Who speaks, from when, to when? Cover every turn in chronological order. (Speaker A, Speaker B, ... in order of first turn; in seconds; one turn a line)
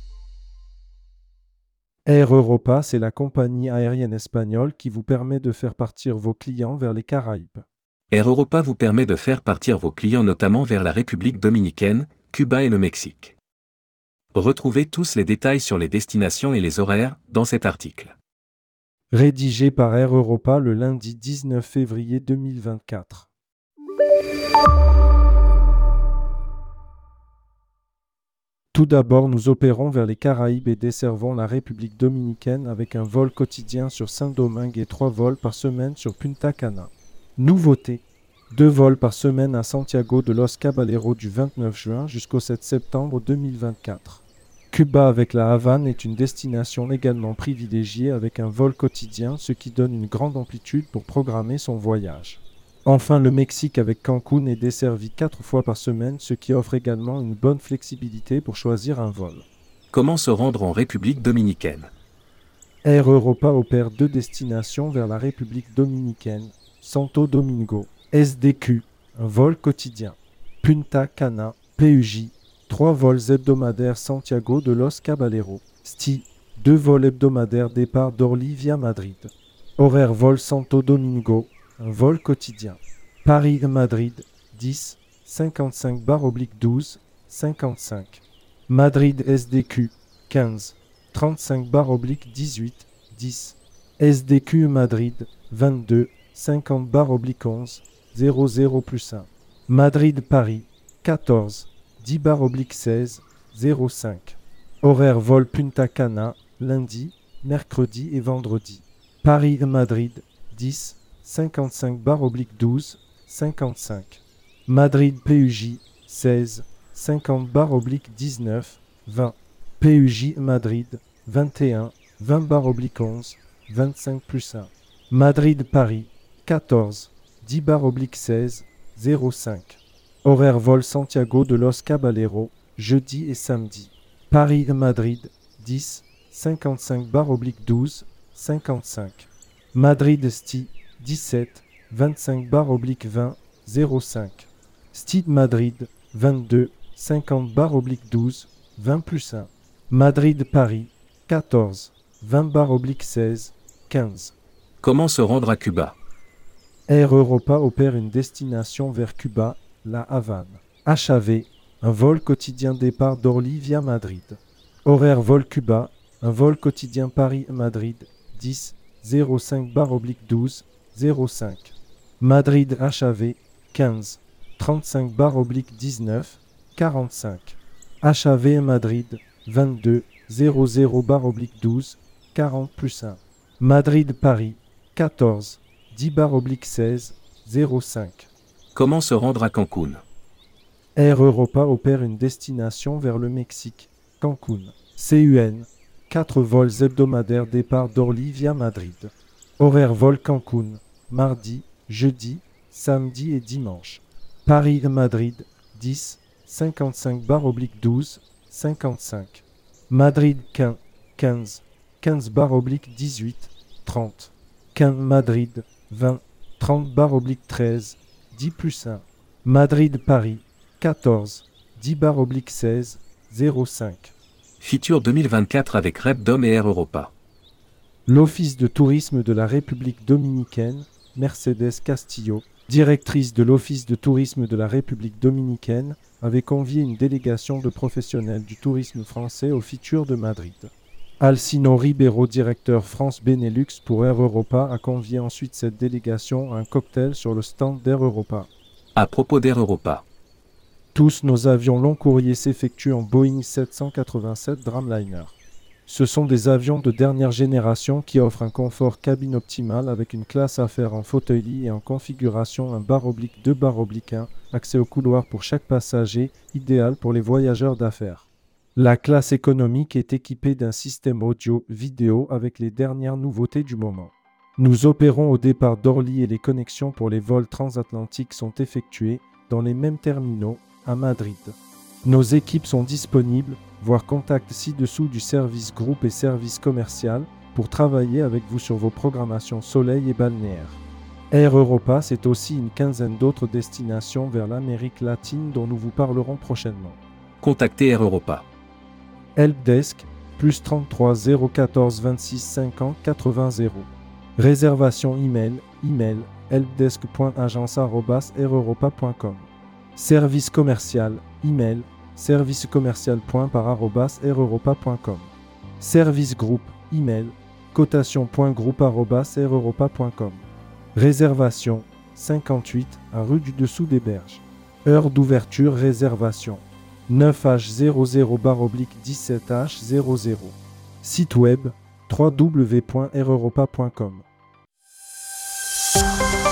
Speaker A: 2.1-7.7
Speaker B: 8.1-13.3
Speaker B: 14.3-18.1
Speaker A: 19.1-23.3
Speaker A: 28.7-59.5
Speaker B: 59.9-61.9
Speaker A: 62.9-154.3
Speaker B: 154.8-156.0
Speaker A: 156.9-188.3
Speaker B: 188.8-190.0
Speaker A: 191.0-224.2
Speaker B: 224.6-227.1
Speaker A: 228.1-248.5
Speaker B: 249.0-250.1
Speaker A: 250.9-297.0
Speaker B: 297.4-298.5
Speaker A: 299.4-334.3